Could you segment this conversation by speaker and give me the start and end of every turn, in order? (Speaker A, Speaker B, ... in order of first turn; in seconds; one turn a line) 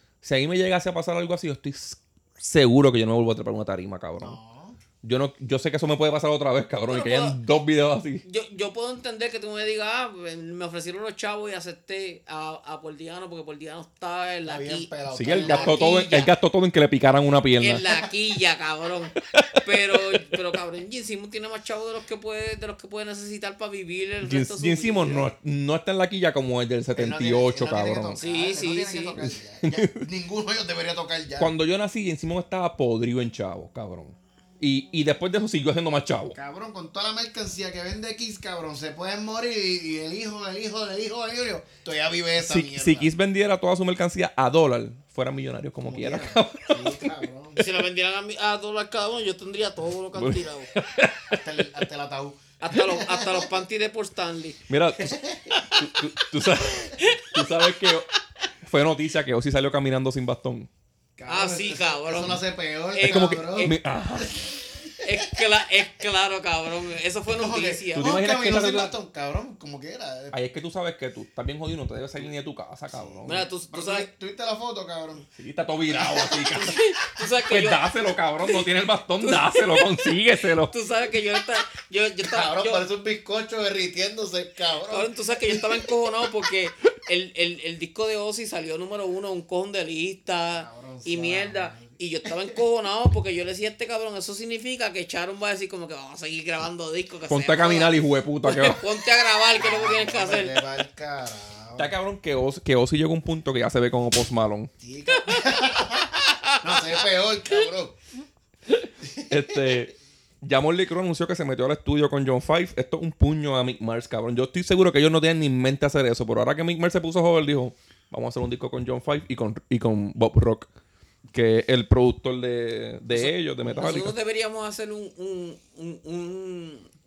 Speaker A: 0.2-4.4
Speaker B: 4.2-4.8
Speaker A: 5.0-8.2
Speaker C: 6.9-7.4
Speaker C: 8.2-16.3
Speaker B: 14.4-15.9
Speaker A: 15.1-17.8
Speaker C: 17.6-25.3
Speaker A: 19.3-20.2
Speaker A: 24.2-28.2
Speaker B: 26.9-31.6
Speaker C: 28.2-29.2
Speaker A: 29.2-30.0
Speaker A: 31.4-36.4
Speaker B: 36.3-43.1
Speaker A: 42.4-47.3
Speaker B: 45.8-47.7
Speaker C: 47.6-50.7
Speaker A: 50.1-51.6
Speaker B: 51.3-53.5
Speaker C: 52.6-54.6
Speaker A: 54.7-55.2
Speaker B: 55.0-55.7
Speaker C: 55.6-55.8
Speaker A: 55.7-58.1
Speaker C: 57.0-57.5
Speaker A: 58.6-60.7
Speaker B: 61.2-63.8
Speaker C: 61.3-63.8
Speaker A: 63.0-64.6
Speaker C: 65.0-68.2
Speaker B: 67.3-70.4
Speaker A: 68.0-69.0
Speaker A: 70.3-73.5
Speaker B: 73.0-75.3
Speaker C: 73.2-74.1
Speaker A: 75.4-76.8
Speaker B: 76.0-76.5
Speaker C: 76.5-77.8
Speaker A: 77.5-80.7
Speaker C: 79.2-82.8
Speaker B: 82.2-85.9
Speaker C: 84.9-100.7
Speaker B: 90.5-92.3
Speaker A: 97.3-98.8
Speaker B: 99.5-101.9
Speaker A: 101.8-104.7
Speaker B: 104.8-108.0
Speaker C: 105.1-106.8
Speaker A: 108.7-120.7
Speaker B: 109.0-109.6
Speaker A: 121.3-124.2
Speaker C: 123.1-126.9